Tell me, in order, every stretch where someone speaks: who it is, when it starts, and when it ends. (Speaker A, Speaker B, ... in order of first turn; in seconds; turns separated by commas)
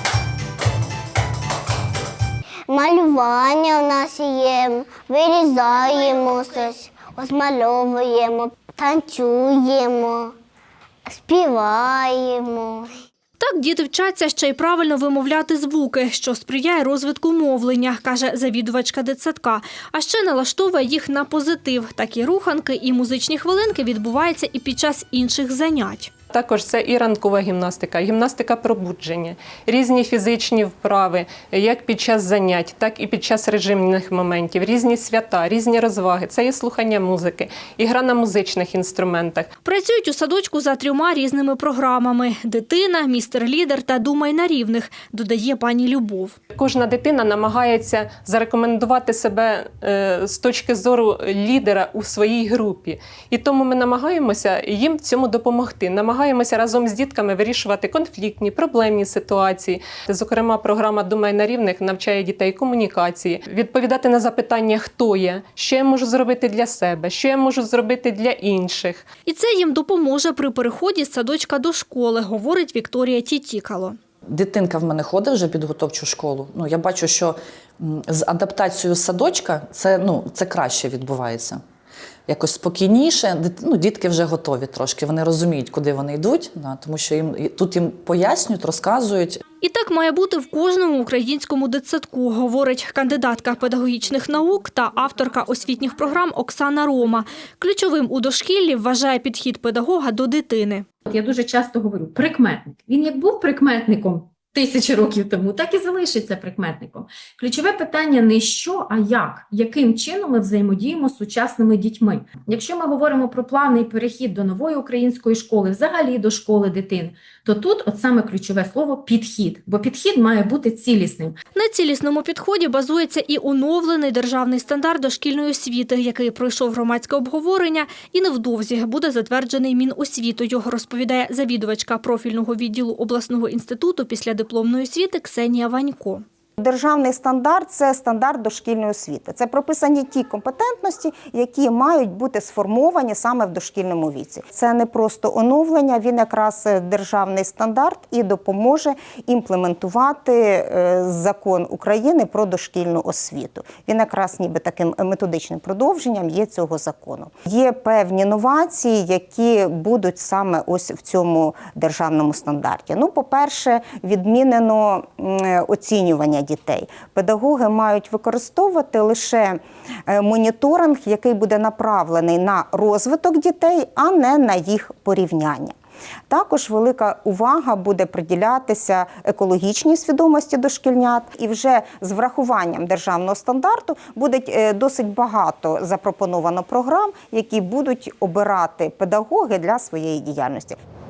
Speaker A: 2.7-10.3, Speaker A: 11.1-12.9, Speaker B: 13.4-26.1, Speaker C: 26.3-39.5, Speaker B: 39.6-46.4, Speaker C: 46.5-69.0, Speaker B: 69.2-74.0, Speaker D: 74.3-81.6, Speaker D: 82.3-89.4, Speaker B: 89.6-100.8, Speaker E: 101.1-121.3, Speaker B: 121.5-136.2, Speaker F: 136.6-175.7, Speaker F: 176.3-190.8